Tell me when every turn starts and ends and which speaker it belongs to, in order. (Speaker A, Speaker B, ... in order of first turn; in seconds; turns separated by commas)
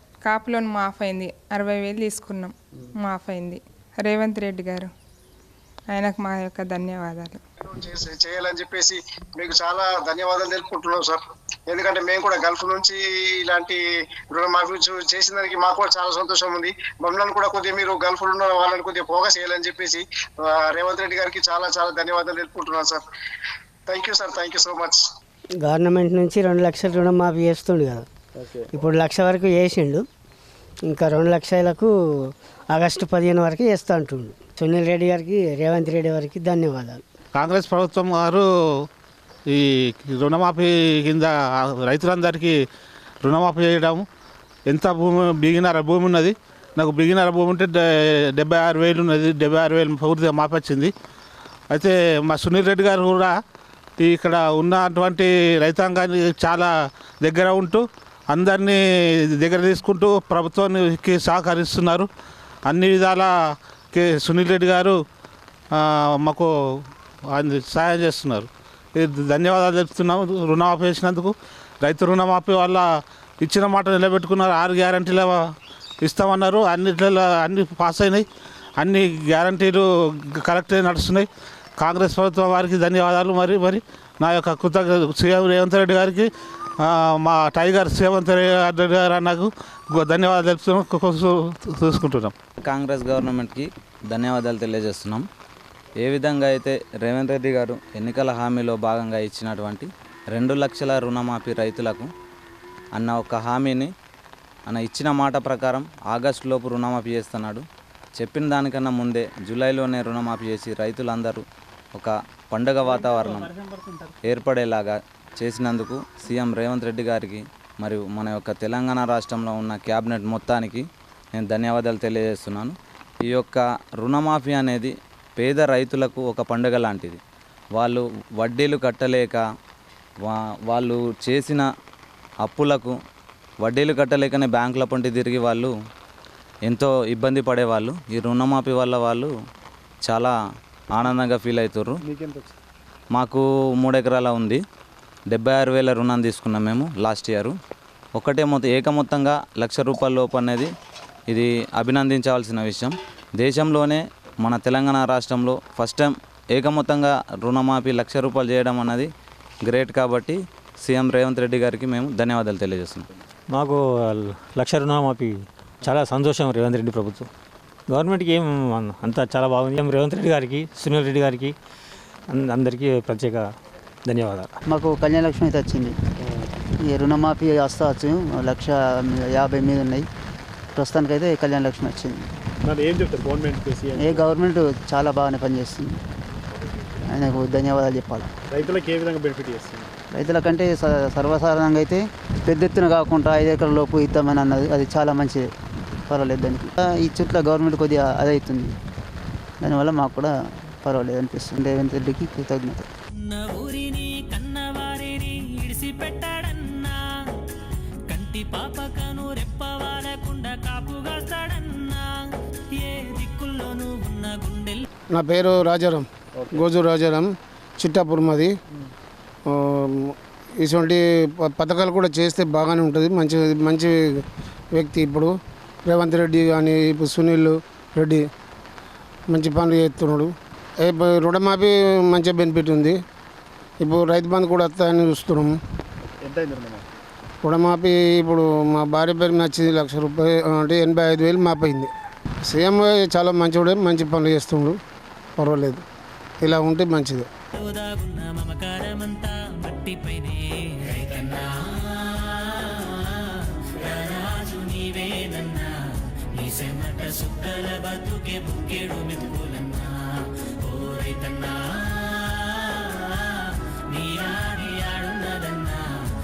Speaker A: 0.2-4.9, Speaker A: 5.9-7.4, Speaker B: 7.7-13.8, Speaker B: 14.3-23.0, Speaker B: 23.9-25.0, Speaker C: 25.6-28.1, Speaker C: 28.7-30.1, Speaker C: 30.9-31.9, Speaker C: 32.7-37.0, Speaker D: 37.4-38.5, Speaker D: 39.5-42.5, Speaker D: 43.2-44.1, Speaker D: 44.7-47.8, Speaker D: 48.3-50.9, Speaker D: 51.7-53.3, Speaker D: 54.0-56.7, Speaker D: 57.2-62.1, Speaker D: 62.7-63.3, Speaker D: 63.9-65.0, Speaker D: 65.8-66.5, Speaker D: 67.3-72.8, Speaker D: 73.4-75.4, Speaker D: 76.0-78.2, Speaker D: 78.8-81.3, Speaker D: 81.8-86.3, Speaker D: 86.8-92.3, Speaker E: 92.6-95.3, Speaker E: 96.0-102.1, Speaker E: 103.0-103.9, Speaker E: 104.7-107.6, Speaker E: 108.2-111.4, Speaker E: 112.0-113.6, Speaker E: 114.2-120.8, Speaker E: 121.4-122.7, Speaker E: 123.2-127.2, Speaker E: 127.8-129.4, Speaker E: 130.2-131.7, Speaker E: 132.4-132.9, Speaker E: 133.6-135.7, Speaker E: 136.7-139.3, Speaker E: 140.1-140.3, Speaker E: 140.9-142.0, Speaker F: 142.1-142.5, Speaker E: 143.1-144.6, Speaker E: 145.3-147.5, Speaker E: 148.2-150.7, Speaker E: 151.3-159.1, Speaker E: 159.7-163.1, Speaker G: 163.5-167.3, Speaker G: 167.9-171.6, Speaker G: 172.3-173.5, Speaker G: 174.1-174.6, Speaker H: 174.7-175.9, Speaker H: 176.8-180.1, Speaker H: 180.8-182.3, Speaker F: 182.7-184.2, Speaker H: 183.9-186.0, Speaker H: 187.1-188.3, Speaker F: 188.7-189.9, Speaker H: 190.1-195.5, Speaker H: 196.1-198.7, Speaker H: 199.6-202.9, Speaker I: 203.1-207.0, Speaker I: 208.1-214.8, Speaker J: 215.1-218.5, Speaker J: 219.5-225.3, Speaker J: 225.9-228.2, Speaker J: 229.3-233.0, Speaker J: 233.8-235.6, Speaker F: 236.2-236.8, Speaker J: 237.4-241.9, Speaker J: 242.5-244.8, Speaker J: 245.4-245.8, Speaker J: 246.4-247.3, Speaker I: 247.5-255.8, Speaker I: 256.4-265.9